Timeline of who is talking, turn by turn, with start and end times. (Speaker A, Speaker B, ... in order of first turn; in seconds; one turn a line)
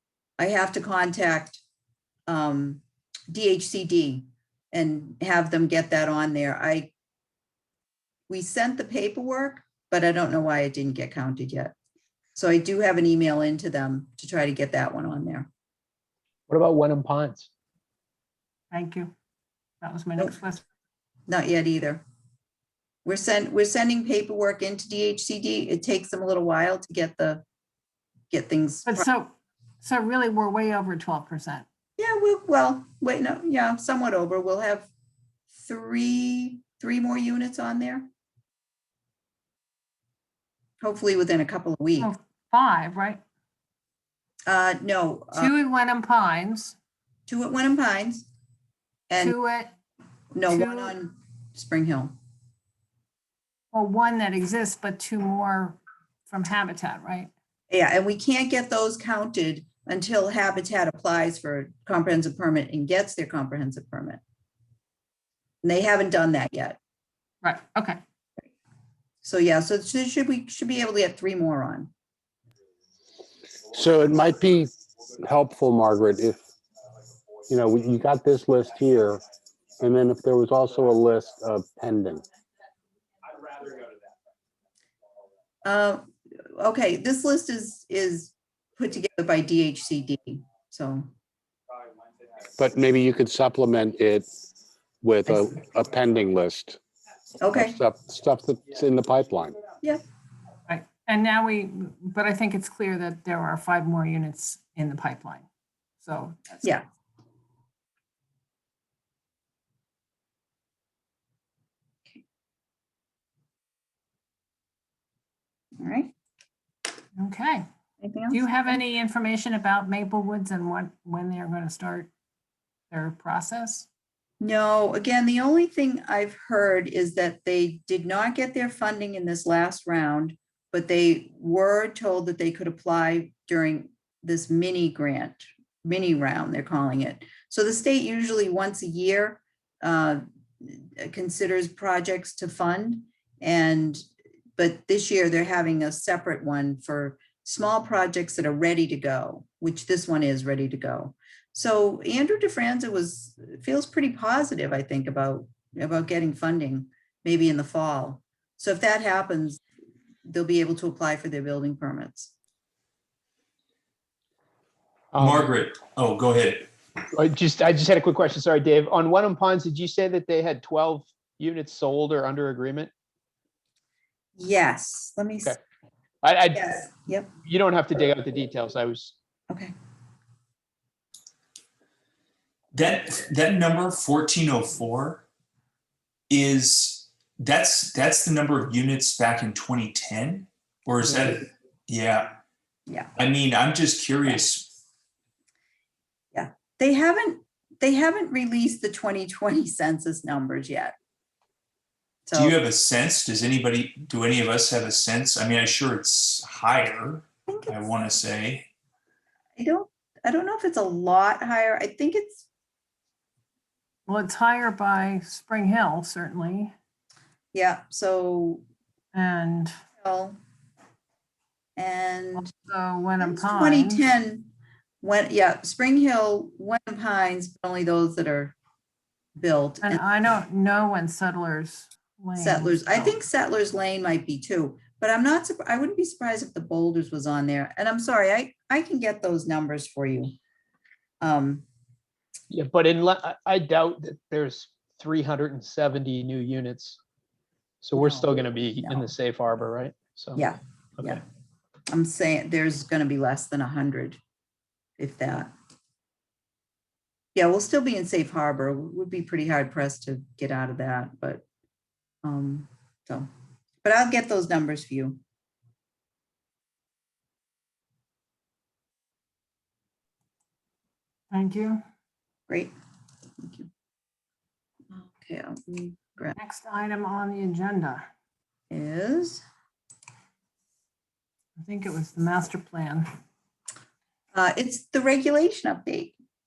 Speaker A: 0.4-1.6
Speaker A: 2.3-6.9
Speaker A: 8.3-11.7
Speaker A: 12.4-15.5
Speaker B: 16.5-17.5
Speaker C: 18.7-19.1
Speaker C: 19.8-20.7
Speaker A: 21.3-22.0
Speaker A: 23.1-27.4
Speaker A: 28.3-29.1
Speaker C: 28.9-31.7
Speaker A: 32.0-34.9
Speaker A: 35.5-38.1
Speaker A: 40.8-42.1
Speaker C: 42.0-43.2
Speaker A: 44.5-45.5
Speaker C: 45.3-46.8
Speaker A: 47.3-48.3
Speaker A: 49.1-49.4
Speaker C: 49.2-49.7
Speaker A: 50.3-52.2
Speaker C: 50.5-51.0
Speaker C: 53.7-57.3
Speaker A: 57.7-64.2
Speaker A: 65.6-66.8
Speaker C: 67.4-68.0
Speaker A: 69.2-71.9
Speaker D: 73.7-76.4
Speaker D: 77.5-79.2
Speaker D: 79.8-82.2
Speaker A: 85.6-91.1
Speaker D: 92.6-94.5
Speaker D: 95.0-96.8
Speaker A: 97.4-97.8
Speaker D: 97.5-99.6
Speaker C: 100.7-105.5
Speaker C: 106.0-106.7
Speaker A: 115.8-116.1
Speaker C: 117.2-117.7
Speaker A: 118.0-118.7
Speaker C: 118.3-122.1
Speaker C: 122.9-123.9
Speaker A: 124.4-144.1
Speaker A: 144.6-159.6
Speaker A: 160.3-162.3
Speaker B: 165.1-165.5
Speaker E: 165.2-166.7
Speaker B: 167.1-172.9
Speaker A: 174.4-175.5
Speaker B: 176.2-176.8
Speaker A: 176.6-177.3
Speaker B: 177.4-179.1
Speaker E: 182.7-185.2
Speaker E: 186.3-192.4
Speaker A: 192.9-193.1
Speaker E: 193.2-194.7
Speaker A: 196.3-200.9
Speaker A: 202.3-202.6
Speaker E: 202.3-208.7
Speaker A: 207.5-207.9
Speaker A: 209.6-212.5
Speaker C: 214.1-216.7
Speaker A: 217.5-218.6
Speaker C: 219.1-219.7
Speaker A: 220.0-220.4
Speaker A: 221.8-222.5
Speaker C: 222.3-224.0
Speaker A: 223.2-224.5
Speaker A: 225.0-228.6
Speaker A: 229.4-230.1
Speaker C: 229.8-233.2
Speaker A: 232.4-240.3
Speaker A: 241.2-241.7
Speaker B: 242.5-247.0
Speaker B: 247.8-250.5
Speaker A: 248.0-249.1
Speaker A: 250.4-251.2
Speaker A: 251.9-254.2
Speaker A: 255.0-255.5
Speaker A: 257.4-261.4
Speaker A: 262.2-263.3
Speaker A: 263.8-265.2
Speaker C: 271.3-271.8
Speaker A: 273.4-273.7
Speaker A: 274.9-276.4
Speaker C: 276.4-278.1
Speaker A: 278.7-279.4
Speaker C: 281.6-283.1
Speaker A: 284.3-286.2